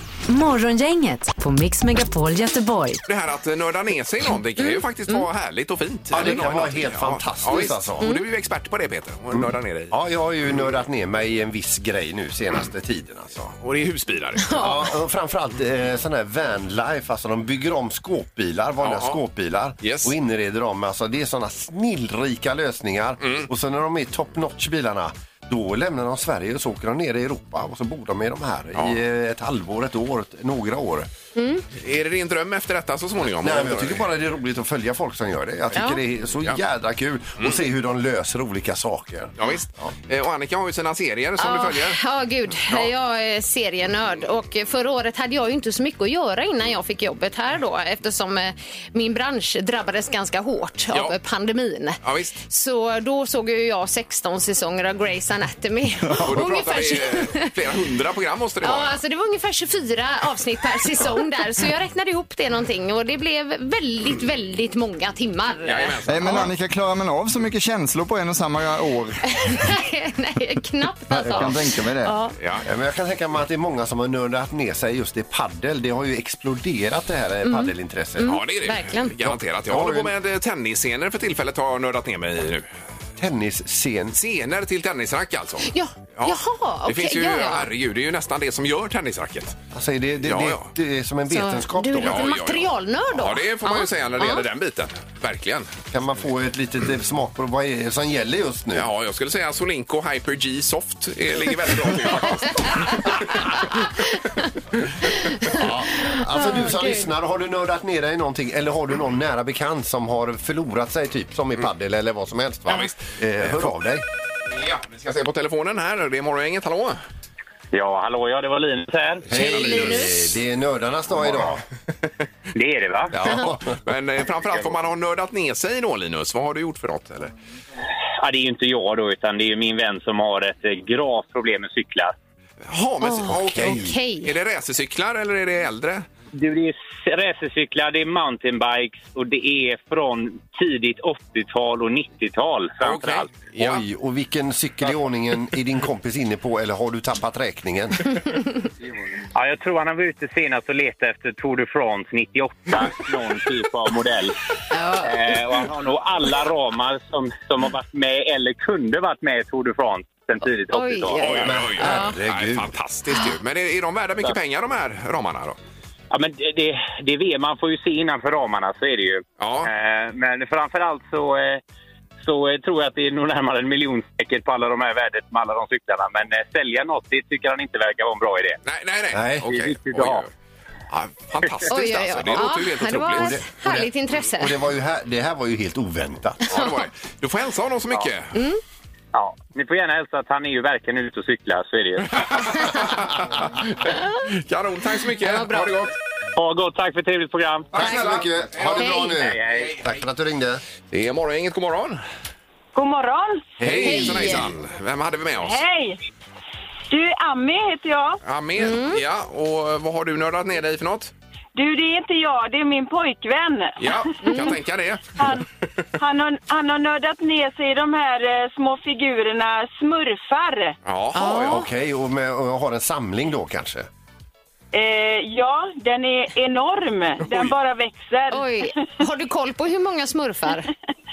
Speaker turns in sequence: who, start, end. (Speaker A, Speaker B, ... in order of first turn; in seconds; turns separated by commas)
Speaker A: 0.3-3.0, Speaker B: 3.1-9.9, Speaker C: 4.6-5.2, Speaker D: 6.1-8.1, Speaker D: 9.3-13.4, Speaker B: 13.4-14.6, Speaker C: 14.4-14.9, Speaker D: 14.5-31.1, Speaker B: 18.8-19.2, Speaker B: 19.8-20.1, Speaker B: 23.2-23.5, Speaker C: 31.4-31.6, Speaker B: 31.8-34.0, Speaker D: 33.4-39.9, Speaker C: 35.7-36.0, Speaker B: 39.4-42.0, Speaker C: 41.4-57.5, Speaker B: 52.0-52.4, Speaker B: 56.2-59.0, Speaker C: 58.6-66.4, Speaker B: 65.6-66.5, Speaker E: 66.1-69.7, Speaker C: 69.3-72.3, Speaker E: 71.1-72.2, Speaker D: 71.2-71.5, Speaker B: 72.4-72.6, Speaker D: 72.6-78.4, Speaker C: 77.4-79.2, Speaker B: 78.2-82.7, Speaker D: 79.3-80.1, Speaker D: 83.2-84.1, Speaker B: 84.1-89.6, Speaker C: 85.7-87.7, Speaker D: 89.7-92.2, Speaker B: 90.2-90.7, Speaker C: 91.3-94.4, Speaker B: 92.0-95.7, Speaker D: 95.9-98.9, Speaker B: 98.8-103.8, Speaker C: 102.6-103.1, Speaker C: 105.1-107.1, Speaker D: 105.5-114.0, Speaker B: 112.7-113.7, Speaker B: 114.5-117.0, Speaker F: 117.7-119.3, Speaker D: 119.3-121.6, Speaker C: 119.3-120.3, Speaker F: 122.5-123.2, Speaker B: 123.1-127.3, Speaker D: 123.2-123.6, Speaker F: 128.2-132.1, Speaker B: 132.7-136.1, Speaker C: 133.0-134.3, Speaker D: 133.3-133.9, Speaker F: 136.3-143.3, Speaker B: 142.8-143.8, Speaker D: 143.6-148.2, Speaker F: 149.3-154.4, Speaker C: 154.7-155.2, Speaker F: 155.0-161.4, Speaker C: 160.7-162.2, Speaker B: 161.2-165.6, Speaker D: 161.2-162.7, Speaker F: 166.1-171.6, Speaker B: 169.4-169.7, Speaker F: 172.2-178.6, Speaker B: 178.7-180.3, Speaker D: 179.1-179.5, Speaker F: 179.5-180.2, Speaker B: 180.9-183.4, Speaker C: 181.7-184.5, Speaker D: 183.1-186.6, Speaker B: 186.5-188.4, Speaker C: 188.3-188.6, Speaker F: 189.1-192.1, Speaker B: 192.1-195.9, Speaker C: 195.2-195.8, Speaker F: 196.4-197.8, Speaker B: 197.7-199.9, Speaker D: 197.7-200.6, Speaker C: 198.8-199.2, Speaker F: 199.2-199.8, Speaker B: 200.9-202.0, Speaker G: 202.8-203.6, Speaker D: 203.6-204.5, Speaker B: 203.6-205.6, Speaker C: 203.8-204.5, Speaker G: 205.4-206.0, Speaker G: 206.9-208.2, Speaker B: 208.2-211.1, Speaker C: 208.6-209.0, Speaker G: 211.6-214.5, Speaker B: 213.8-215.4, Speaker C: 214.2-214.6, Speaker G: 215.2-215.4, Speaker G: 216.0-220.8, Speaker B: 220.8-221.6, Speaker C: 221.1-221.7, Speaker D: 221.5-223.9, Speaker G: 224.7-228.8, Speaker C: 228.3-230.7